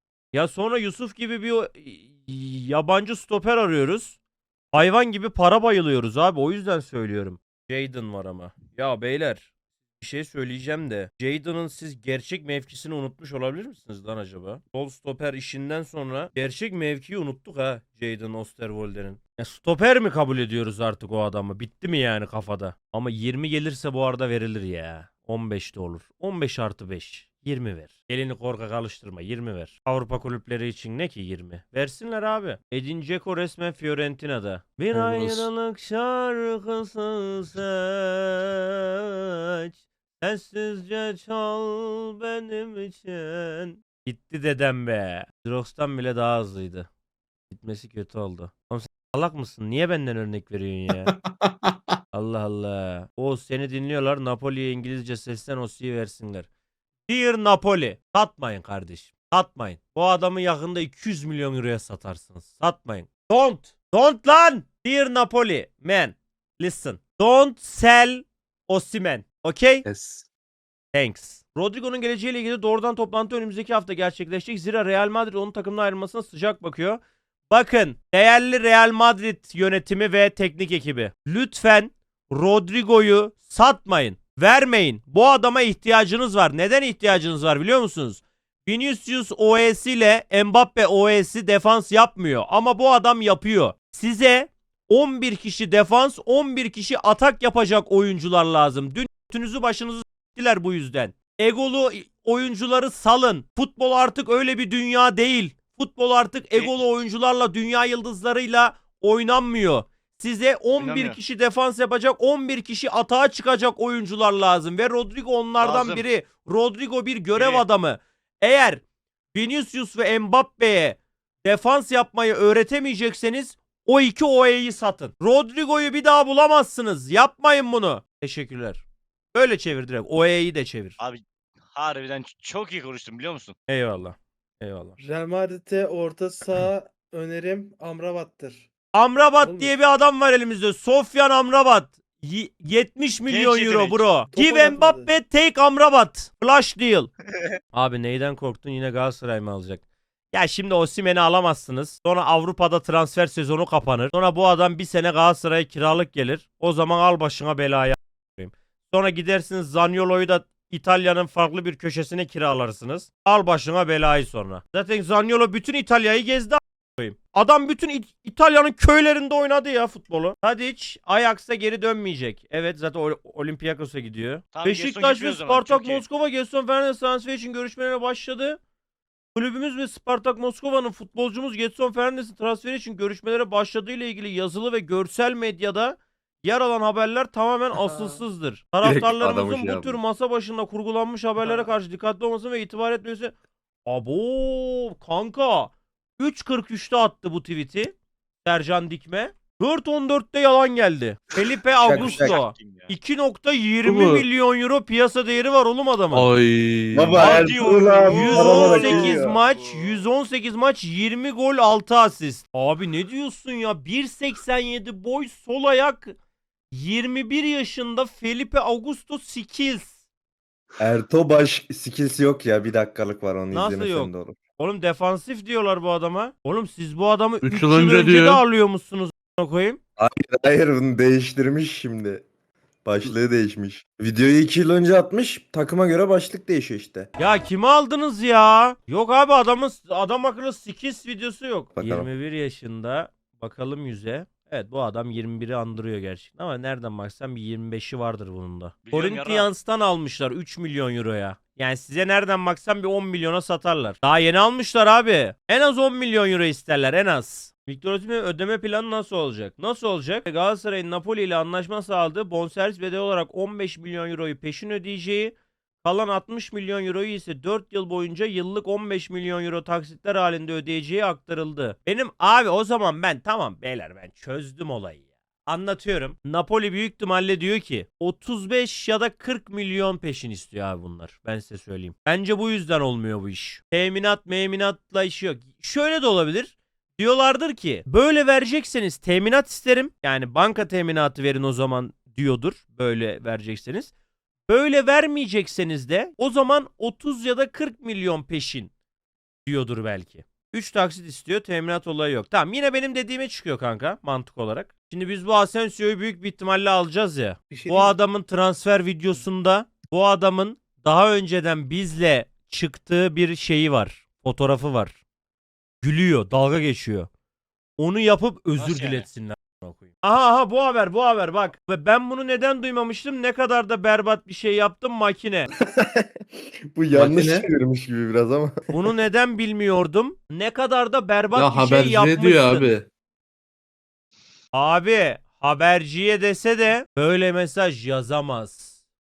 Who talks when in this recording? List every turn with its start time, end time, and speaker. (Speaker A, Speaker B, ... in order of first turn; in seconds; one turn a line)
Speaker A: 0.3-4.2
Speaker A: 4.7-9.5
Speaker A: 10.0-46.9
Speaker B: 34.9-35.5
Speaker A: 47.5-51.1
Speaker A: 52.1-56.5
Speaker A: 57.1-69.8
Speaker B: 69.9-70.2
Speaker A: 70.9-118.8
Speaker C: 110.8-111.2
Speaker C: 115.6-116.1
Speaker C: 117.3-117.7
Speaker A: 119.3-131.0
Speaker C: 131.7-133.6
Speaker A: 133.7-135.0
Speaker D: 135.0-138.7
Speaker A: 138.9-147.1
Speaker D: 139.4-139.7
Speaker C: 143.3-144.1
Speaker D: 144.3-145.1
Speaker A: 147.7-178.6
Speaker C: 174.5-176.0
Speaker A: 179.3-193.3
Speaker E: 188.8-190.0
Speaker C: 191.4-191.7
Speaker A: 193.9-206.3
Speaker E: 201.8-202.4
Speaker C: 201.9-202.9
Speaker B: 203.8-204.3
Speaker B: 206.1-208.2
Speaker E: 206.9-209.4
Speaker A: 207.2-216.2
Speaker C: 207.2-210.1
Speaker A: 216.7-219.9
Speaker E: 220.8-224.4
Speaker A: 223.5-229.8
Speaker B: 227.4-228.4
Speaker E: 230.0-232.2
Speaker E: 232.8-237.1
Speaker A: 237.2-293.9
Speaker E: 241.8-242.1
Speaker C: 248.8-249.5
Speaker A: 294.5-298.7
Speaker A: 299.5-315.0
Speaker D: 307.5-307.9
Speaker A: 315.8-317.1
Speaker A: 317.8-325.5
Speaker C: 318.6-319.1
Speaker E: 325.8-326.0
Speaker E: 326.7-328.5
Speaker B: 326.9-327.5
Speaker A: 328.7-332.8
Speaker B: 331.3-332.9
Speaker A: 334.5-338.8